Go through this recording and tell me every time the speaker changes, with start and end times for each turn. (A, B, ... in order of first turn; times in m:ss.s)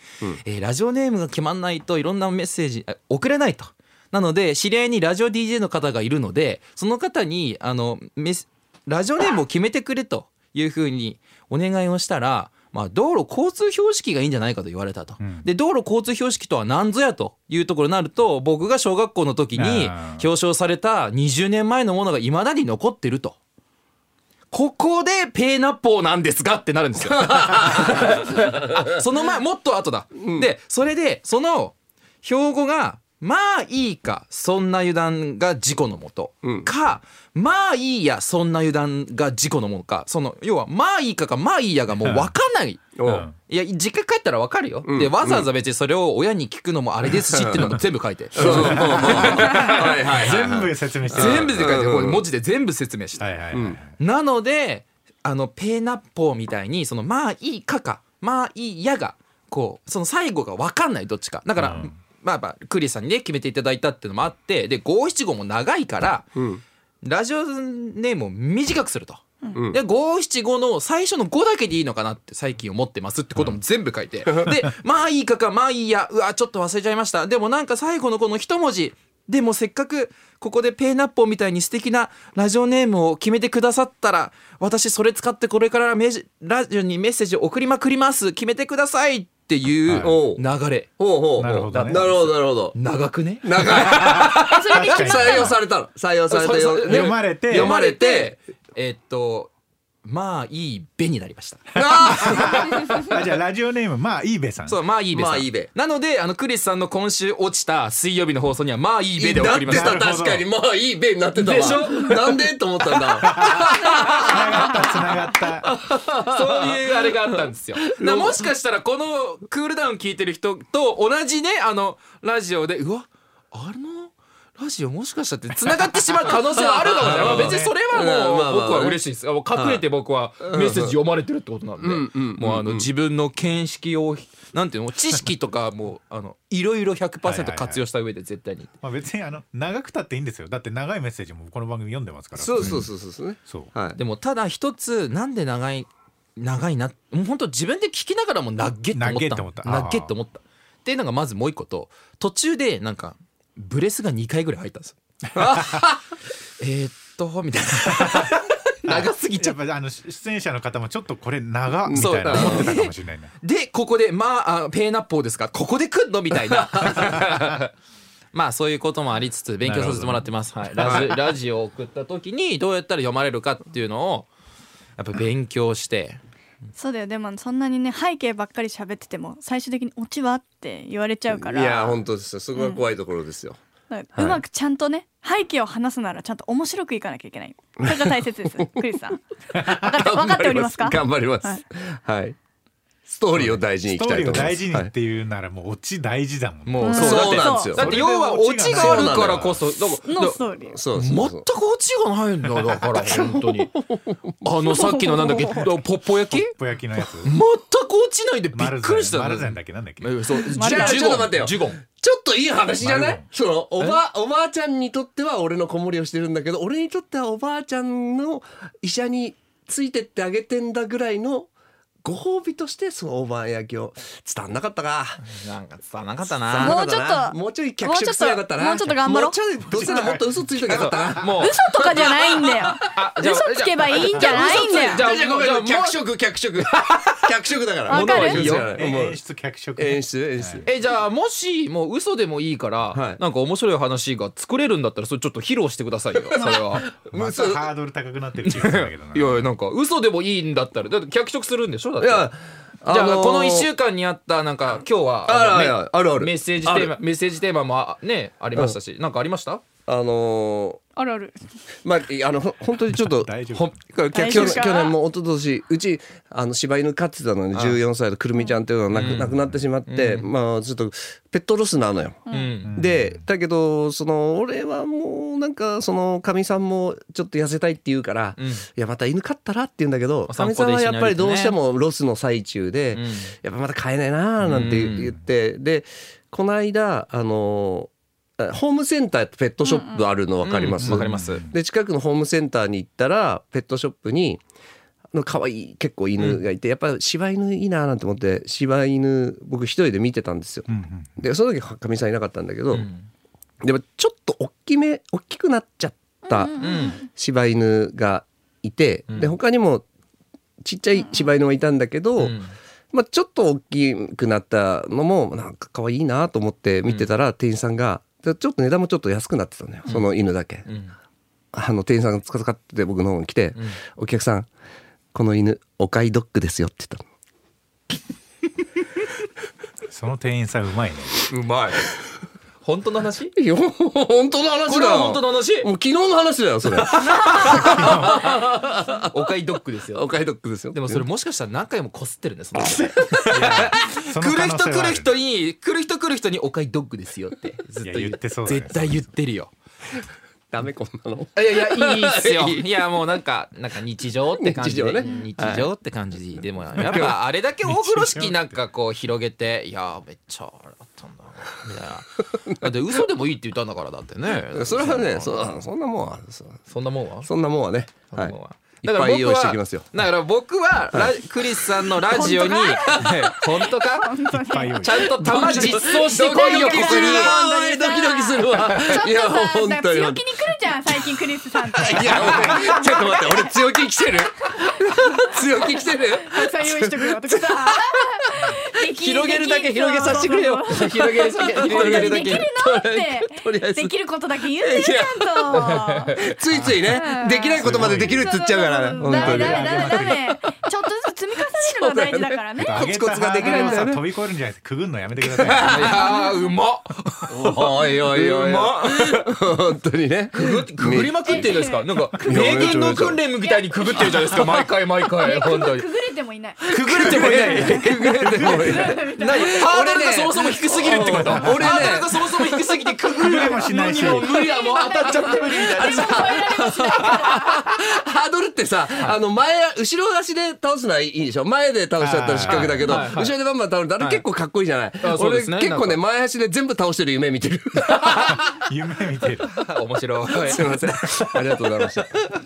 0:00.4-0:23.4 A
0:15.2-0:15.5 B
0:19.6-0:20.3 B
0:24.5-0:50.2 A
0:27.1-0:28.8 C
0:30.2-0:30.5 C
0:36.4-0:36.7 C
0:42.0-0:42.3 B
0:43.0-0:43.3 C
0:43.0-0:43.3 B
0:44.8-0:45.5 C
0:47.2-0:47.7 C
0:48.3-0:52.2 C
0:48.4-0:51.8 B
0:51.1-0:53.3 A
0:53.2-0:53.9 B
0:53.5-0:53.8 C
0:53.9-1:06.3 A
1:01.6-1:01.9 B
1:06.4-1:06.6 C
1:07.0-1:30.9 A
1:09.5-1:09.8 C
1:29.9-1:30.2 B
1:30.0-1:30.4 C
1:31.0-1:32.8 C
1:31.4-1:32.1 B
1:31.7-1:35.4 A
1:33.4-1:38.4 C
1:33.9-1:35.6 B
1:34.5-1:35.5 D
1:36.3-1:39.5 A
1:36.8-1:37.8 B
1:40.0-1:43.1 A
1:41.8-1:42.9 C
1:42.1-1:44.8 B
1:44.7-1:50.0 A
1:45.1-1:45.7 C
1:49.2-1:54.9 C
1:49.6-1:50.5 B
1:51.4-1:52.4 A
1:53.2-1:55.7 B
1:53.2-1:54.4 A
1:55.6-1:57.2 C
1:56.2-2:18.7 A
1:57.8-1:58.5 C
2:06.3-2:09.0 C
2:07.0-2:07.7 B
2:09.5-2:09.8 C
2:10.4-2:11.0 C
2:11.8-2:12.9 C
2:17.2-2:17.8 B
2:18.8-2:22.9 B
2:22.4-2:24.0 C
2:24.0-2:35.9 A
2:28.9-2:30.1 B
2:35.4-2:35.9 C
2:36.6-2:39.6 A
2:37.9-2:43.3 B
2:41.9-2:42.7 C
2:41.9-2:47.7 A
2:48.3-2:54.3 A
2:49.6-2:51.1 B
2:50.8-2:51.1 C
2:55.0-2:56.2 A
2:56.8-3:02.0 D
3:01.3-3:03.6 C
3:02.6-3:02.8 D
3:03.9-3:11.6 D
3:07.8-3:08.1 C
3:09.7-3:12.4 C
3:13.1-3:14.9 C
3:13.4-3:17.0 B
3:16.7-3:20.4 A
3:16.8-3:17.9 D
3:16.9-3:18.0 C
3:17.8-3:19.6 B
3:18.6-3:19.5 C
3:20.0-3:20.8 D
3:20.7-3:21.4 C
3:21.0-3:23.7 A
3:22.8-3:24.4 C
3:24.4-3:26.6 A
3:24.7-3:25.6 D
3:26.3-3:27.3 B
3:27.2-3:31.8 A
3:28.5-3:30.1 B
3:30.4-3:31.3 D
3:30.6-3:41.5 C
3:32.8-3:33.3 B
3:42.0-3:45.2 C
3:45.2-3:46.8 A
3:46.4-3:52.8 C
3:46.6-3:50.0 D
3:49.7-3:51.0 B
3:50.6-3:51.7 A
3:51.2-3:55.1 D
3:52.8-3:56.0 A
3:54.0-3:59.2 C
3:56.6-3:57.3 A
3:57.9-3:58.6 D
3:57.9-3:58.8 A
3:58.7-4:00.7 B
3:59.8-4:00.7 C
4:00.6-4:06.9 A
4:02.9-4:03.2 C
4:06.3-4:07.6 C
4:06.4-4:09.5 B
4:08.4-4:12.3 A
4:12.0-4:13.7 C
4:12.9-4:19.6 A
4:15.3-4:17.0 C
4:19.9-4:20.8 C
4:21.0-4:21.4 D
4:21.8-4:54.4 C
4:22.9-4:23.8 B
4:24.1-4:25.0 D
4:27.5-4:27.8 A
4:28.9-4:30.3 A
4:32.3-4:32.5 D
4:32.3-4:32.8 A
4:32.6-4:33.2 B
4:38.4-4:38.7 A
4:40.3-4:41.6 A
4:42.9-4:43.4 A
4:44.4-4:45.2 A
4:49.6-4:50.1 D
4:50.4-4:51.5 A
4:50.8-4:51.5 B
4:55.1-5:02.9 C
4:56.2-4:56.4 A
5:00.7-5:01.2 B
5:02.7-5:03.1 A
5:03.6-5:09.9 C
5:06.3-5:07.1 D
5:06.6-5:07.0 A
5:09.1-5:09.4 A
5:10.6-5:12.4 C
5:11.0-5:11.3 D
5:12.2-5:12.6 A
5:12.9-5:20.7 C
5:16.8-5:17.1 A
5:20.6-5:21.0 A
5:21.5-5:24.5 C
5:25.1-5:27.0 C
5:29.9-5:31.3 B
5:31.3-5:32.2 C
5:31.4-5:31.8 A
5:32.6-5:33.3 A
5:33.4-5:39.2 C
5:34.7-5:35.7 A
5:36.8-5:38.6 A
5:37.0-5:37.7 D
5:37.5-5:38.2 B
5:39.1-5:40.1 A
5:39.9-5:41.0 C
5:40.7-5:49.5 A
5:42.7-5:43.3 C
5:43.3-5:45.1 B
5:47.8-5:49.1 B
5:50.5-5:52.6 C
5:51.4-6:05.6 A
5:54.4-5:55.7 C
5:56.8-5:58.6 B
5:56.8-5:57.2 C
6:04.5-6:06.6 C
6:06.7-6:07.3 A
6:07.2-6:09.9 C
6:08.1-6:14.1 A
6:12.0-6:23.9 D
6:12.9-6:13.2 C
6:14.3-6:15.8 B
6:14.8-6:17.4 A
6:15.1-6:20.3 C
6:21.8-6:28.6 C
6:24.5-6:43.9 D
6:29.0-6:32.5 A
6:30.0-6:40.4 C
6:35.6-6:36.2 A
6:36.5-6:37.0 B
6:37.6-6:38.3 B
6:39.0-6:40.4 B
6:41.5-6:44.0 C
6:42.6-6:46.0 B
6:45.2-6:46.0 C
6:45.6-6:49.3 A
6:45.8-6:46.5 D
6:47.3-6:51.5 C
6:50.3-6:55.9 A
6:51.2-6:52.8 D
6:52.2-6:53.2 C
6:53.4-6:54.6 D
6:55.2-6:56.7 D
6:56.7-7:02.6 C
6:56.7-6:58.7 B
6:56.7-7:07.4 A
6:57.5-7:00.0 D
7:01.0-7:01.9 B
7:01.6-7:01.9 D
7:03.2-7:04.3 B
7:03.2-7:07.8 D
7:04.8-7:18.4 C
7:12.0-7:13.0 B
7:12.4-7:13.4 A
7:14.0-7:14.2 A
7:15.0-7:16.0 A
7:17.9-7:18.4 A
7:18.5-7:19.6 B
7:19.6-7:20.7 A
7:20.3-7:22.2 C